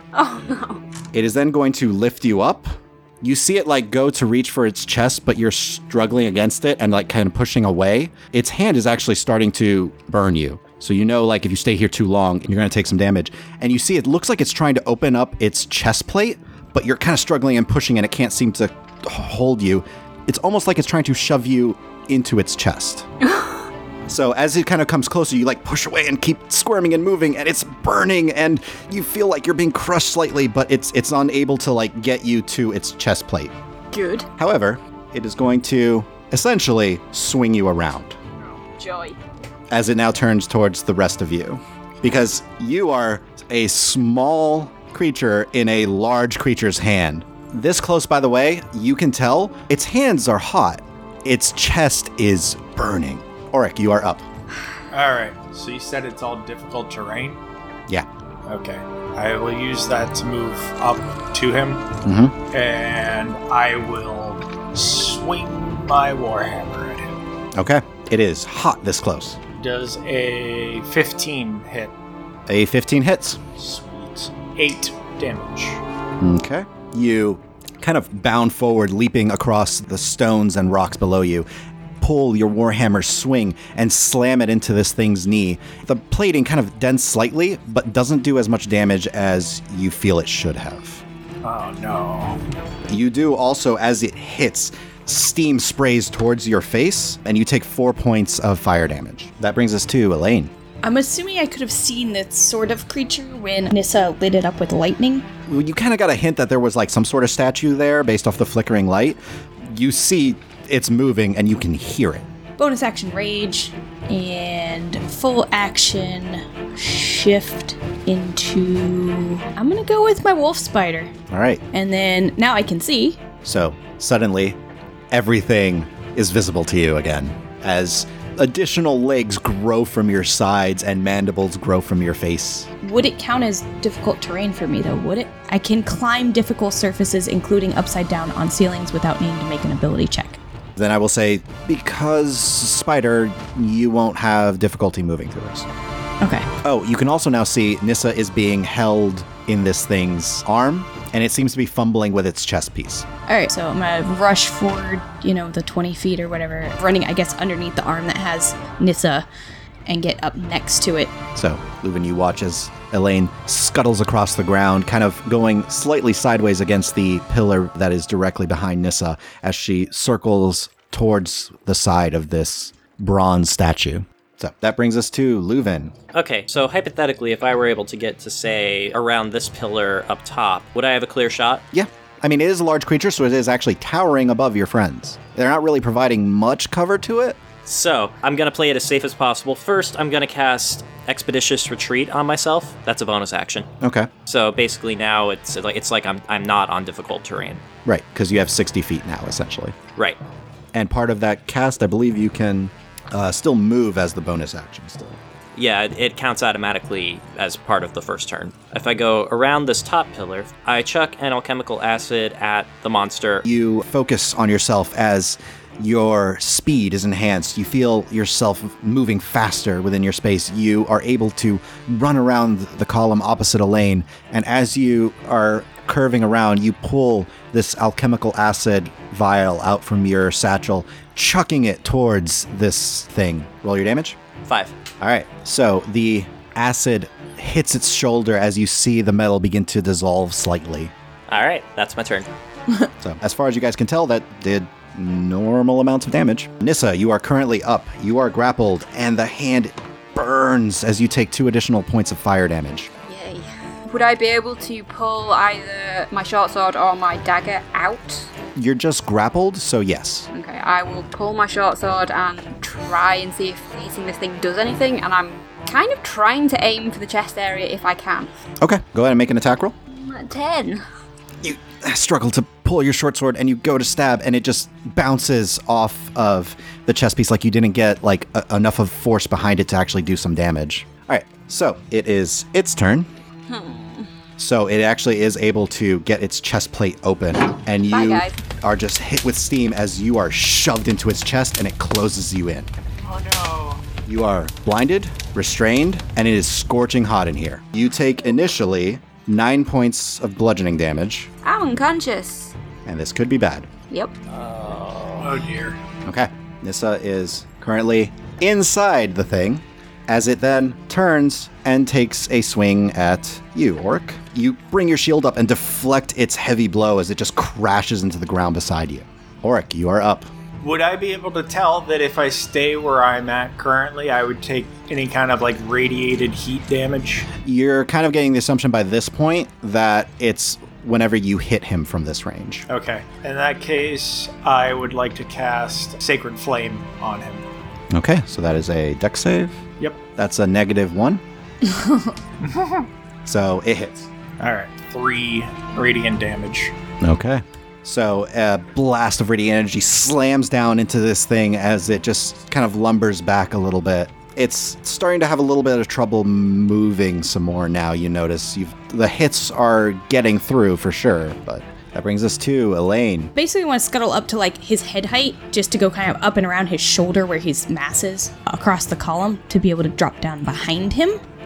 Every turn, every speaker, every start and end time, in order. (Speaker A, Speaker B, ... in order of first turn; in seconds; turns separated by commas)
Speaker A: 0.1-0.8, Speaker B: 1.1-23.1, Speaker B: 24.1-33.5, Speaker A: 33.9-34.3, Speaker B: 34.4-38.2, Speaker A: 38.4-39.2, Speaker B: 39.7-54.2, Speaker C: 54.9-57.4, Speaker C: 58.5-61.9, Speaker B: 62.0-62.4, Speaker C: 62.5-67.2, Speaker B: 67.5-69.4, Speaker C: 69.6-71.9, Speaker B: 72.5-73.4, Speaker C: 73.6-75.8, Speaker B: 76.2-81.5, Speaker B: 82.0-91.0, Speaker C: 91.4-92.4, Speaker B: 92.9-100.5, Speaker D: 100.8-105.3, Speaker B: 105.5-112.2, Speaker D: 112.6-121.1, Speaker B: 121.3-121.6, Speaker D: 121.7-123.2, Speaker B: 123.4-124.6, Speaker B: 125.1-132.7, Speaker D: 132.8-140.4, Speaker B: 140.8-145.7, Speaker D: 146.2-146.5, Speaker B: 146.6-153.1, Speaker D: 153.3-159.2, Speaker D: 159.9-161.1, Speaker B: 161.3-175.9, Speaker E: 176.1-181.6, Speaker B: 181.7-187.4, Speaker E: 187.7-193.7, Speaker B: 193.8-194.1, Speaker E: 194.2-197.6, Speaker B: 197.8-199.8, Speaker B: 200.7-205.2, Speaker E: 205.5-213.4, Speaker B: 213.4-234.2, Speaker E: 234.4-234.7, Speaker B: 235.0-240.9, Speaker E: 241.3-242.3, Speaker B: 243.0-252.9, Speaker A: 253.1-258.3, Speaker B: 258.5-260.3, Speaker A: 260.3-268.3, Speaker B: 268.6-269.7, Speaker A: 269.9-270.8, Speaker B: 271.4-283.1, Speaker A: 283.5-284.1, Speaker B: 284.4-292.7, Speaker A: 287.9-288.4, Speaker C: 293.0-293.8, Speaker B: 294.0-301.3, Speaker A: 301.4-302.5, Speaker B: 302.9-303.7, Speaker E: 304.3-305.4, Speaker C: 305.2-305.8, Speaker B: 306.0-320.3, Speaker C: 320.6-327.3, Speaker B: 327.4-332.6, Speaker C: 332.7-337.4, Speaker B: 337.9-339.6, Speaker B: 340.1-341.2, Speaker D: 341.6-342.1, Speaker C: 342.4-342.9, Speaker B: 343.2-344.1, Speaker C: 344.4-346.7, Speaker B: 347.0-363.3, Speaker D: 363.3-371.2